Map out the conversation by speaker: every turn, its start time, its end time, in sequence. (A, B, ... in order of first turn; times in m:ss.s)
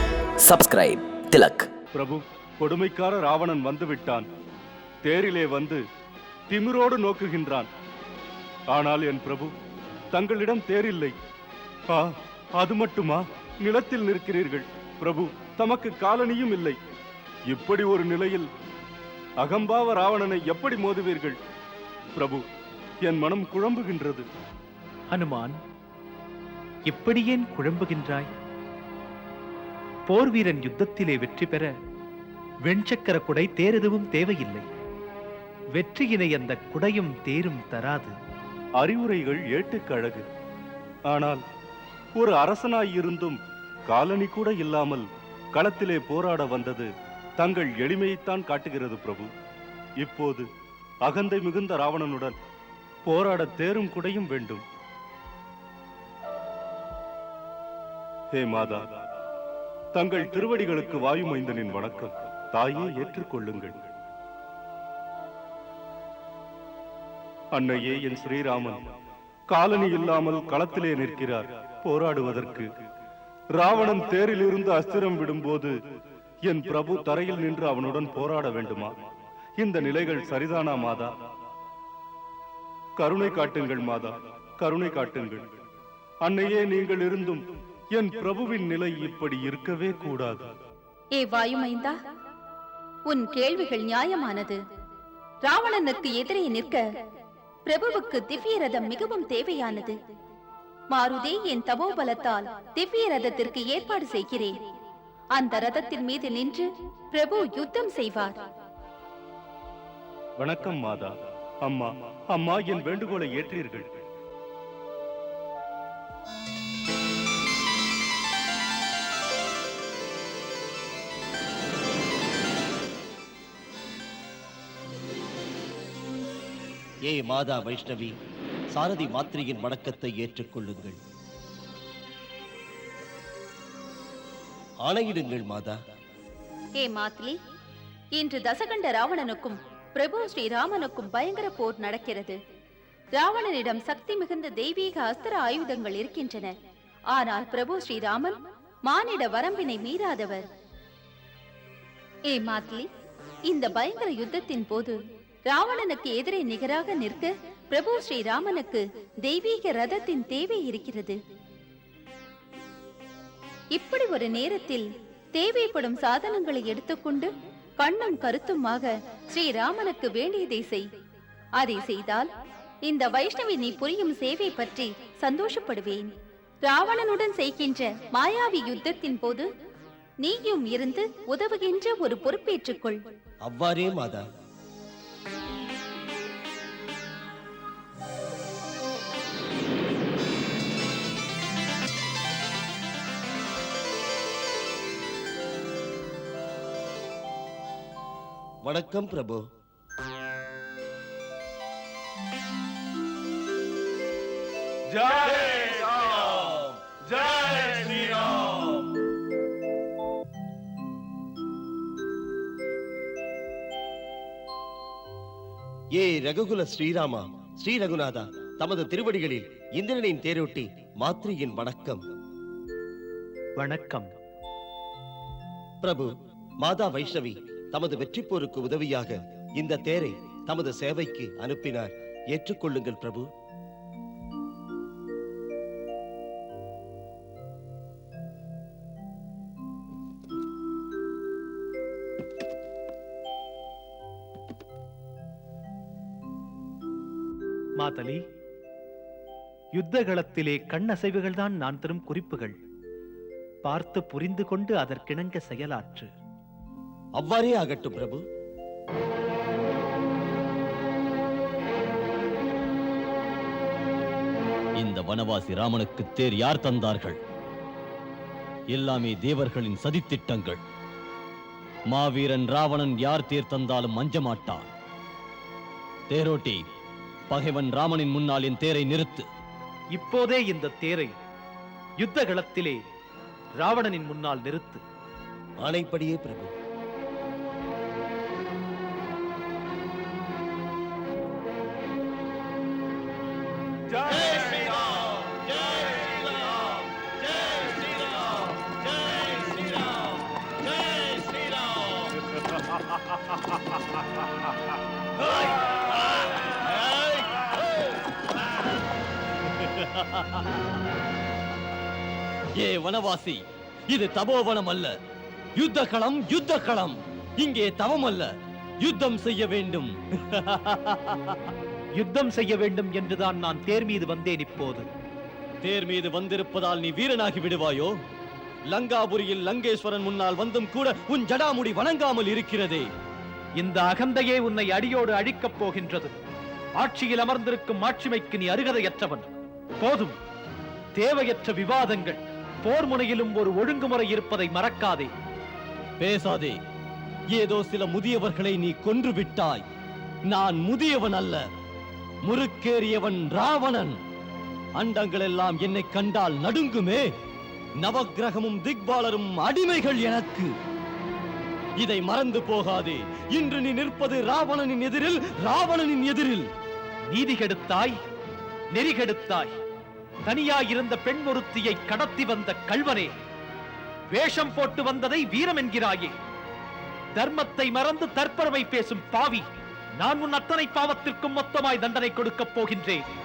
0:00.4-0:01.7 A
0:01.9-0:04.3 B
0:05.0-0:05.8 B
0:06.5-0:07.7 B
0:08.7-0:09.5 B
0:10.1-0:11.1 B
0:11.9-0:16.8 B
0:17.5-0:18.5 B
0:19.4-0:21.4 B
0:22.1-0:22.4 B
0:23.0-0:24.3 B
0:25.1-0:25.5 C
0:26.8-0:28.3 C
0:30.1-0:31.7 C
0:32.6-0:34.6 C
0:35.7-0:38.1 C
0:38.8-0:40.2 B
0:41.1-0:41.4 B
0:42.1-0:49.3 B
0:50.0-0:50.5 B
0:51.0-0:52.3 B
0:53.0-0:54.6 B
0:58.3-0:58.8 B
0:59.9-1:03.8 B
1:07.5-1:08.8 B
1:09.5-1:12.7 B
1:13.5-1:15.7 B
1:16.4-1:18.9 B
1:19.6-1:21.1 B
1:23.0-1:25.4 B
1:26.2-1:30.5 B
1:31.1-1:32.0 D
1:33.0-1:34.6 D
1:35.4-1:36.8 D
1:37.6-1:39.9 D
1:40.9-1:44.6 D
1:45.3-1:48.4 D
1:50.4-1:53.9 B
2:07.1-2:08.1 E
2:08.7-2:11.0 E
2:14.8-2:15.8 E
2:16.8-2:17.4 D
2:18.1-2:22.4 D
2:23.1-2:26.5 D
2:27.1-2:30.4 D
2:32.3-2:32.9 D
2:33.5-2:41.2 D
2:43.7-2:50.8 D
2:51.6-2:52.3 D
2:52.8-2:56.1 D
2:56.6-2:59.5 D
3:00.2-3:03.0 D
3:03.5-3:04.2 E
3:18.6-3:19.4 E
3:36.0-3:42.0 E
3:43.6-3:44.1 C
3:45.8-3:46.1 E
3:46.6-3:53.2 E
4:07.8-4:08.2 C
4:09.7-4:12.5 C
4:13.6-4:16.1 C
4:17.2-4:18.2 E
4:24.8-4:27.2 F
4:28.7-4:30.6 F
4:31.9-4:34.7 F
4:36.1-4:36.6 F
4:37.3-4:39.3 F
4:39.9-4:41.1 C
4:42.0-4:42.8 C
4:43.6-4:44.8 C
4:45.6-4:46.5 E
4:54.1-4:54.9 A
4:55.7-4:56.1 A
4:57.5-4:57.8 A
4:59.1-4:59.5 A
5:09.6-5:10.4 F
5:12.5-5:14.9 F
5:15.6-5:18.3 F
5:18.8-5:21.4 F
5:22.0-5:24.8 C
5:25.6-5:28.0 F
5:28.7-5:32.8 F
5:33.6-5:36.1 C
5:36.8-5:40.2 C
5:40.9-5:45.1 C
5:46.0-5:46.6 F
5:47.3-5:49.6 F
5:50.3-5:51.4 F
5:52.2-5:54.0 F
5:54.7-5:57.0 F
5:57.8-6:00.5 F
6:01.8-6:06.5 F
6:07.1-6:08.0 C
6:08.7-6:09.5 C
6:10.2-6:13.1 C
6:14.1-6:16.1 C
6:17.1-6:19.4 C
6:20.0-6:23.0 C